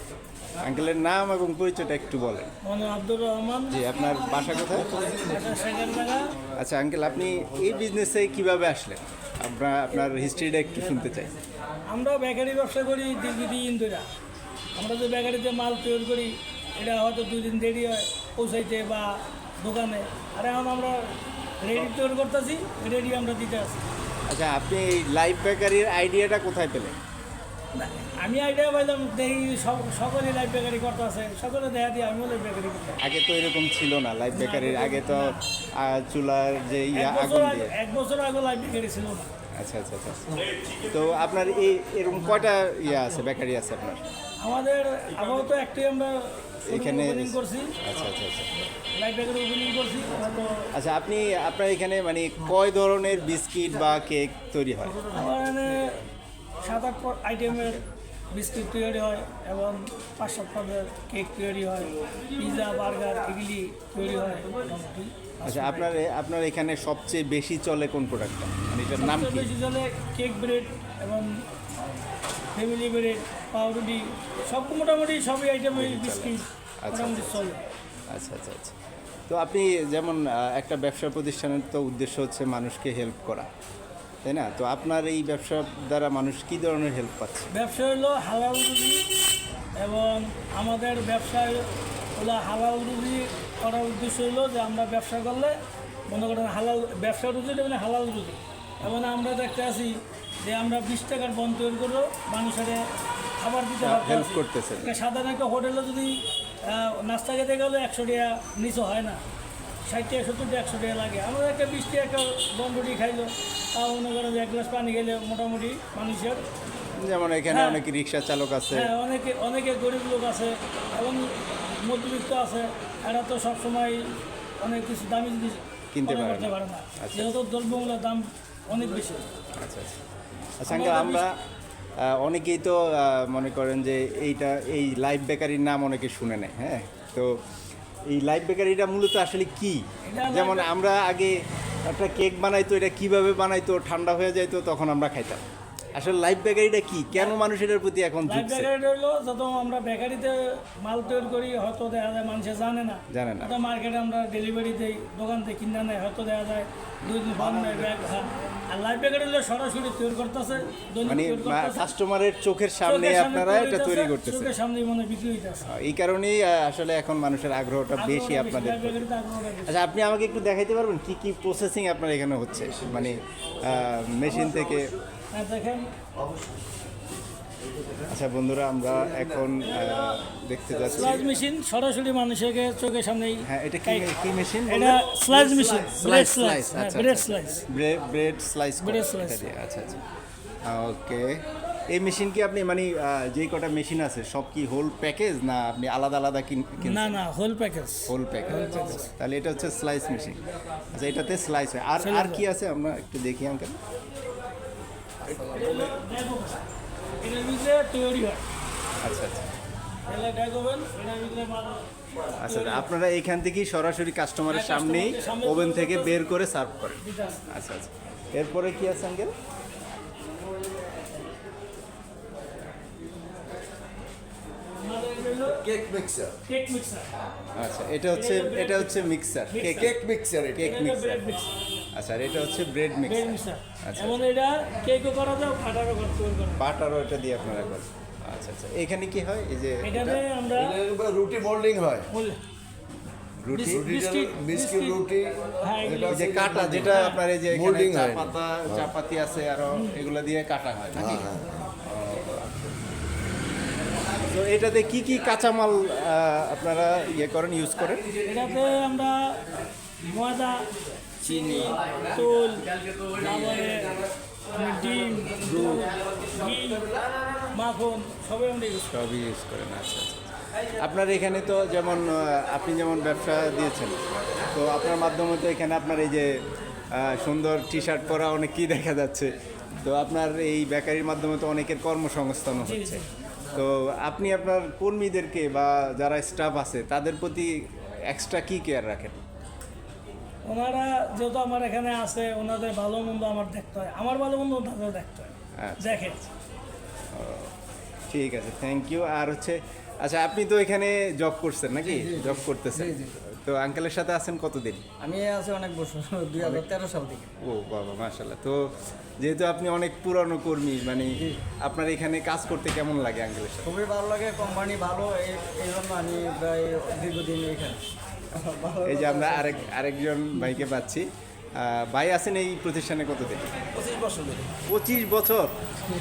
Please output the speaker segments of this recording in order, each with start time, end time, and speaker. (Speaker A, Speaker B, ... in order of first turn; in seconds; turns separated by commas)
Speaker A: 0.6-2.5, Speaker B: 2.6-3.8, Speaker A: 3.7-5.0, Speaker B: 5.1-6.3, Speaker A: 6.5-11.3, Speaker B: 11.9-14.1, Speaker B: 14.7-23.8, Speaker A: 24.3-27.0, Speaker B: 27.7-33.0, Speaker A: 33.0-37.7, Speaker B: 34.3-35.4, Speaker B: 36.9-39.3, Speaker A: 39.5-44.0, Speaker B: 44.4-47.7, Speaker A: 46.7-48.5, Speaker B: 48.9-50.7, Speaker A: 50.7-55.0, Speaker B: 55.1-56.0, Speaker B: 56.6-65.9, Speaker A: 65.4-69.5, Speaker B: 69.0-71.3, Speaker B: 72.5-77.6, Speaker A: 75.7-77.4, Speaker A: 78.1-78.7, Speaker A: 79.3-83.5, Speaker A: 84.2-87.5, Speaker B: 87.5-89.0, Speaker B: 89.8-95.5, Speaker B: 96.1-102.8, Speaker B: 103.4-109.2, Speaker A: 103.8-105.0, Speaker B: 109.8-116.4, Speaker A: 117.0-118.9, Speaker B: 117.5-117.8, Speaker B: 118.7-129.3, Speaker A: 125.9-127.3, Speaker A: 129.5-130.0, Speaker A: 130.6-131.3, Speaker B: 130.7-131.2, Speaker A: 132.0-137.4, Speaker A: 138.1-145.4, Speaker B: 140.0-140.7, Speaker A: 145.9-148.7, Speaker B: 148.3-161.9, Speaker A: 153.1-153.6, Speaker A: 157.0-158.0, Speaker A: 161.0-164.5, Speaker B: 162.8-165.7, Speaker A: 165.7-169.1, Speaker B: 168.0-169.7, Speaker A: 169.6-174.9, Speaker B: 175.3-175.9, Speaker A: 178.1-181.3, Speaker B: 180.9-184.1, Speaker A: 183.5-190.0, Speaker B: 184.7-187.6, Speaker B: 188.8-189.4, Speaker A: 190.6-197.2, Speaker B: 196.8-199.0, Speaker A: 198.1-203.8, Speaker B: 202.0-202.4, Speaker B: 205.3-206.6, Speaker B: 207.2-208.4, Speaker A: 209.0-209.5, Speaker B: 210.1-212.9, Speaker A: 212.4-219.3, Speaker B: 214.5-216.2, Speaker B: 217.0-217.4, Speaker B: 224.8-225.7, Speaker C: 225.6-226.4, Speaker B: 226.4-227.1, Speaker A: 227.5-230.0, Speaker B: 228.1-230.0, Speaker C: 229.8-230.6, Speaker A: 230.5-231.2, Speaker B: 230.6-231.5, Speaker A: 231.9-234.2, Speaker B: 233.1-236.6, Speaker A: 236.6-240.2, Speaker B: 239.8-240.8, Speaker C: 240.6-242.1, Speaker B: 242.1-242.4, Speaker A: 243.4-243.9, Speaker B: 243.5-245.0, Speaker C: 243.7-248.3, Speaker B: 245.6-246.2, Speaker A: 246.1-252.5, Speaker B: 246.9-247.2, Speaker C: 251.0-251.5, Speaker A: 254.2-258.0, Speaker B: 258.2-259.4, Speaker B: 260.0-260.7, Speaker B: 261.2-266.9, Speaker B: 267.5-268.9, Speaker A: 268.9-289.2, Speaker B: 282.6-283.1, Speaker B: 290.4-296.2, Speaker A: 295.6-296.3, Speaker A: 297.1-297.5, Speaker A: 298.1-304.8, Speaker D: 301.8-303.2, Speaker D: 305.0-307.3, Speaker A: 306.4-306.7, Speaker A: 307.4-313.7, Speaker D: 313.6-317.8, Speaker D: 318.3-319.7, Speaker A: 318.8-323.6, Speaker D: 323.8-324.4, Speaker A: 324.6-325.5